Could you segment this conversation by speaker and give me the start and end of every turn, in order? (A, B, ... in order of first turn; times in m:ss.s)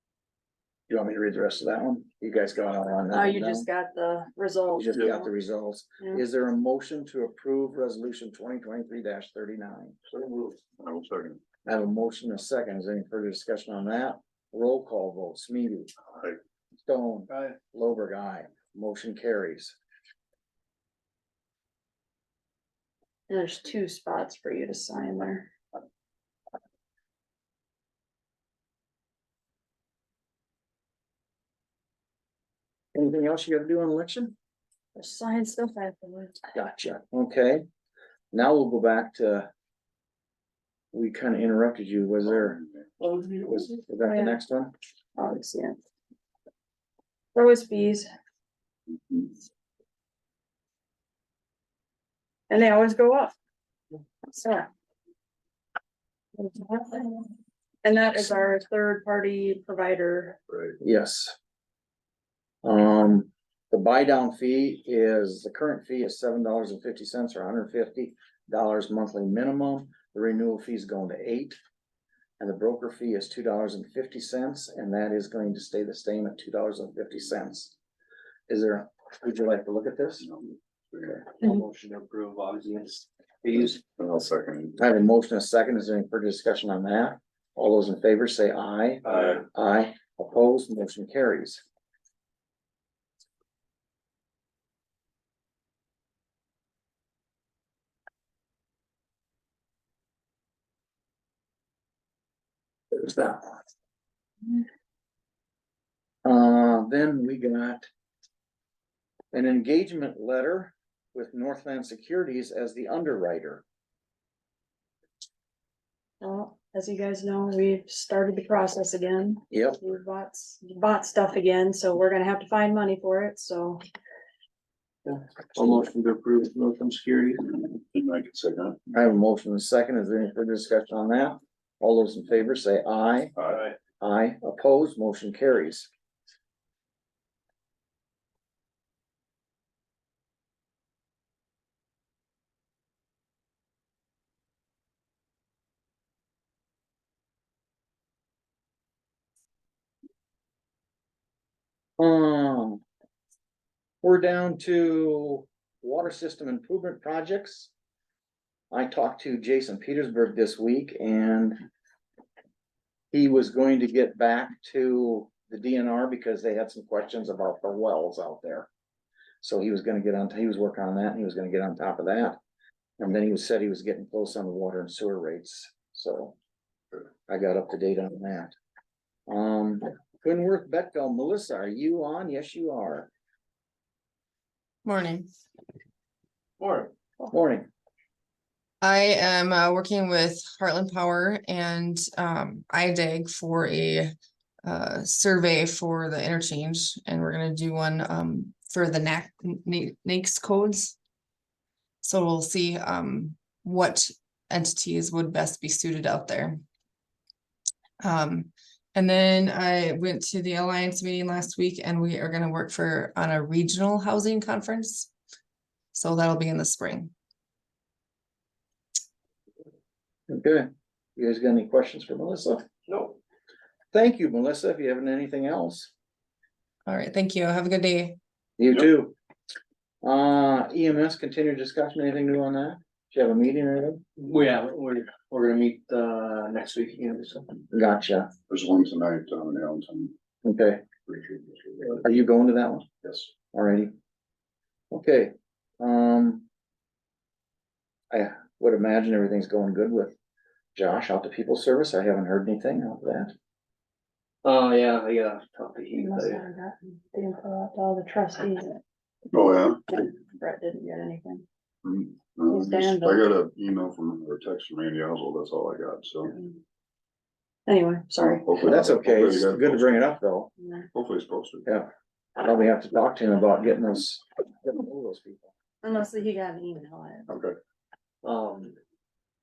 0:00.9-0:03.7 A
0:03.1-0:05.3 B
0:04.8-0:10.0 A
0:10.1-0:11.4 C
0:11.6-0:15.9 A
0:16.8-0:19.8 A
0:23.3-0:25.5 B
0:33.0-0:34.4 A
0:35.0-0:36.4 B
0:36.6-0:37.6 A
0:38.3-0:39.5 A
0:40.9-0:42.6 A
0:42.4-0:42.8 C
0:43.0-0:44.4 B
0:43.4-0:44.7 A
0:45.2-0:45.8 B
0:47.4-0:48.1 B
0:52.5-0:53.4 B
0:54.2-0:54.7 B
0:56.4-0:57.3 B
0:57.8-1:00.4 B
1:00.8-1:01.4 A
1:02.6-1:11.6 A
1:12.4-1:17.8 A
1:18.5-1:20.3 A
1:20.9-1:21.2 C
1:21.4-1:23.8 D
1:23.7-1:24.8 C
1:24.8-1:31.6 A
1:29.0-1:29.4 D
1:29.1-1:29.4 C
1:42.9-1:43.6 A
1:46.2-1:47.9 A
1:49.3-1:53.6 A
1:56.2-2:03.8 B
1:59.5-1:59.8 A
2:05.1-2:07.6 D
2:07.7-2:08.8 C
2:08.9-2:13.3 A
2:14.0-2:15.9 A
2:32.0-2:32.8 A
2:34.0-2:37.7 A
2:38.7-2:41.6 A
2:43.1-2:48.7 A
2:49.4-2:52.4 A
2:53.0-2:56.4 A
2:57.3-2:58.5 A
2:59.3-3:03.1 A
3:04.8-3:05.3 E
3:06.6-3:06.9 D
3:07.3-3:07.7 A
3:08.8-3:21.0 E
3:22.0-3:26.6 E
3:28.0-3:35.1 E
3:35.9-3:37.1 E
3:40.3-3:42.6 A
3:42.9-3:43.2 D
3:43.9-3:45.9 A
3:46.9-3:48.2 E
3:48.6-3:49.2 A
3:50.0-3:54.0 A
3:54.2-3:57.5 D
3:57.7-3:58.3 A
3:58.5-4:00.1 C
4:00.4-4:00.8 A
4:01.1-4:02.0 C
4:02.0-4:02.9 A
4:03.5-4:03.9 A
4:04.9-4:06.4 A
4:08.1-4:10.2 A
4:10.8-4:13.3 A
4:14.4-4:16.4 D
4:15.9-4:18.8 B
4:19.3-4:19.8 C
4:19.9-4:21.4 B
4:21.8-4:26.4 C
4:22.5-4:23.2 B
4:27.7-4:28.5 B
4:28.4-4:30.1 C
4:28.6-4:30.5 A
4:30.9-4:31.7 C
4:31.7-4:35.5 A
4:35.8-4:37.3 B
4:37.3-4:37.6 C
4:38.2-4:38.8 D